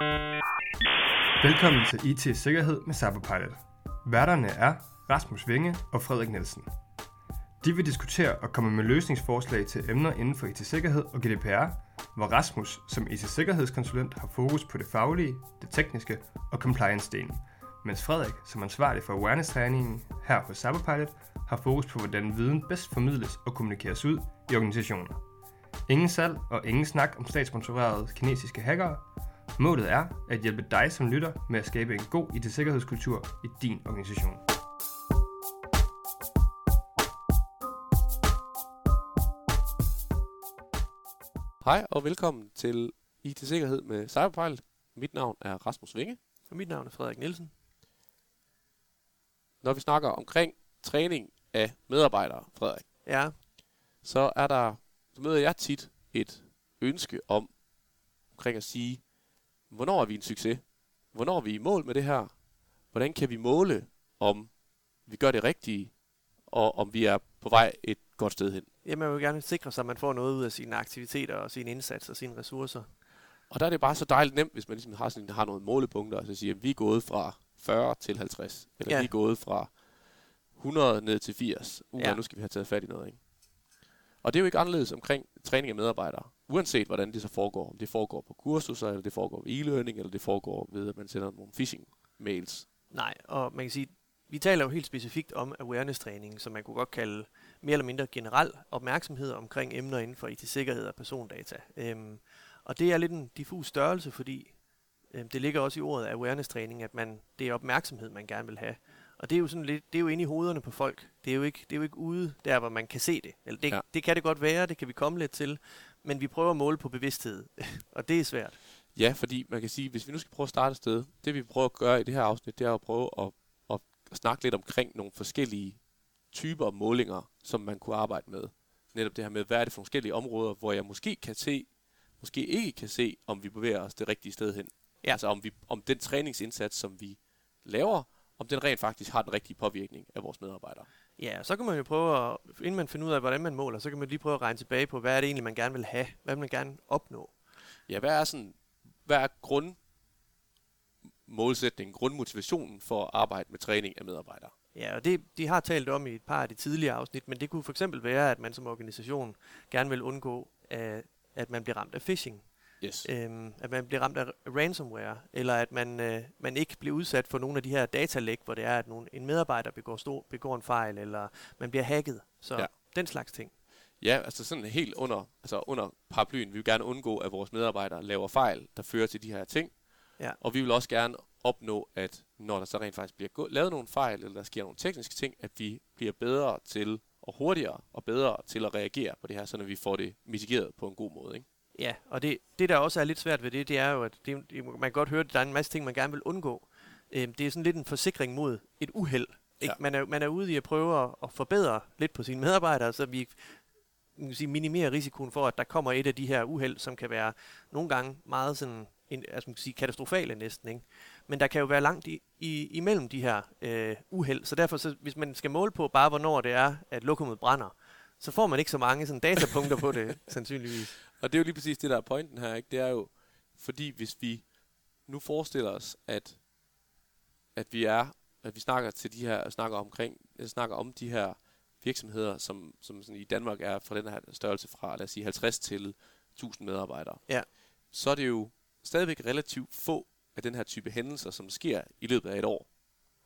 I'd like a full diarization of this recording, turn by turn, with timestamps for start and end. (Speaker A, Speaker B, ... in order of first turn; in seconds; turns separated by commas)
Speaker A: 1.4-6.7, Speaker A: 7.6-25.2, Speaker A: 25.9-29.0, Speaker A: 29.6-34.4, Speaker B: 41.6-46.2, Speaker C: 46.5-47.5, Speaker B: 49.6-52.9, Speaker C: 53.0-53.4, Speaker B: 54.0-57.6, Speaker B: 58.2-59.1, Speaker B: 59.7-68.7, Speaker C: 68.8-72.9, Speaker B: 73.5-79.8, Speaker C: 78.9-79.1, Speaker B: 80.5-83.2, Speaker B: 84.2-92.7, Speaker C: 92.9-104.6, Speaker C: 105.1-118.6, Speaker B: 118.9-140.9, Speaker C: 141.2-147.3, Speaker B: 147.9-149.8, Speaker B: 151.2-154.5, Speaker C: 154.7-162.5, Speaker B: 162.8-163.1, Speaker C: 163.0-173.5, Speaker B: 174.0-191.4, Speaker C: 191.8-203.6, Speaker C: 204.2-220.9, Speaker B: 221.1-224.5, Speaker B: 225.0-226.4, Speaker B: 227.6-242.7